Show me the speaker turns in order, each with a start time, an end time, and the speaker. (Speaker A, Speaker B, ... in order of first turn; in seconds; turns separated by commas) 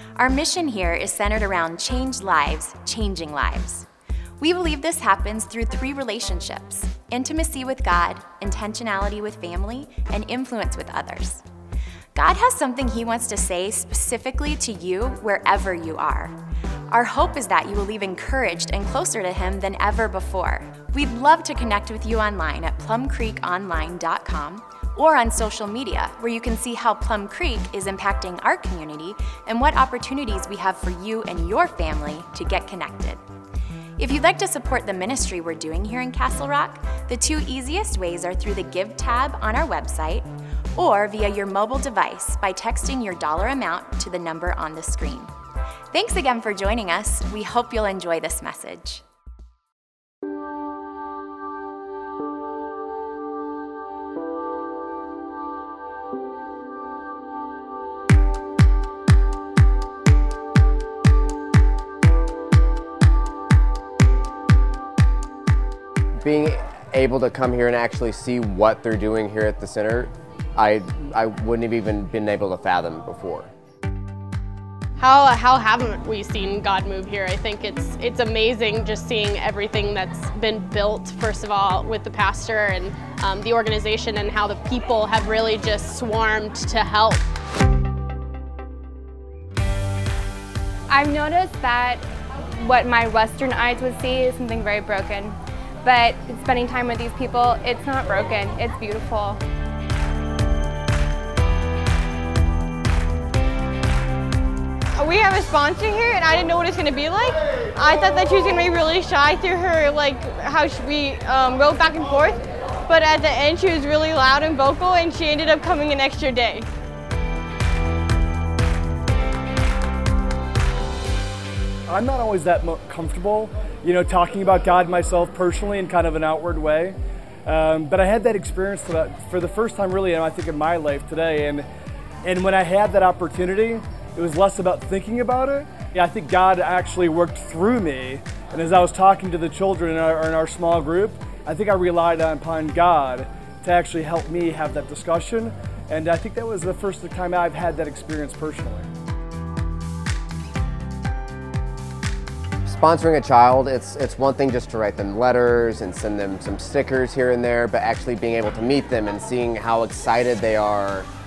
Speaker A: 0.1-3.9, Speaker A: 4.4-11.4, Speaker A: 12.1-16.4, Speaker A: 16.9-33.2, Speaker A: 34.0-45.3, Speaker A: 45.9-49.0, Speaker B: 66.2-73.5, Speaker C: 75.0-87.2, Speaker D: 90.9-92.0, Speaker D: 92.5-99.4, Speaker E: 105.0-116.7, Speaker F: 121.9-131.7, Speaker F: 132.2-148.9, Speaker B: 152.6-161.1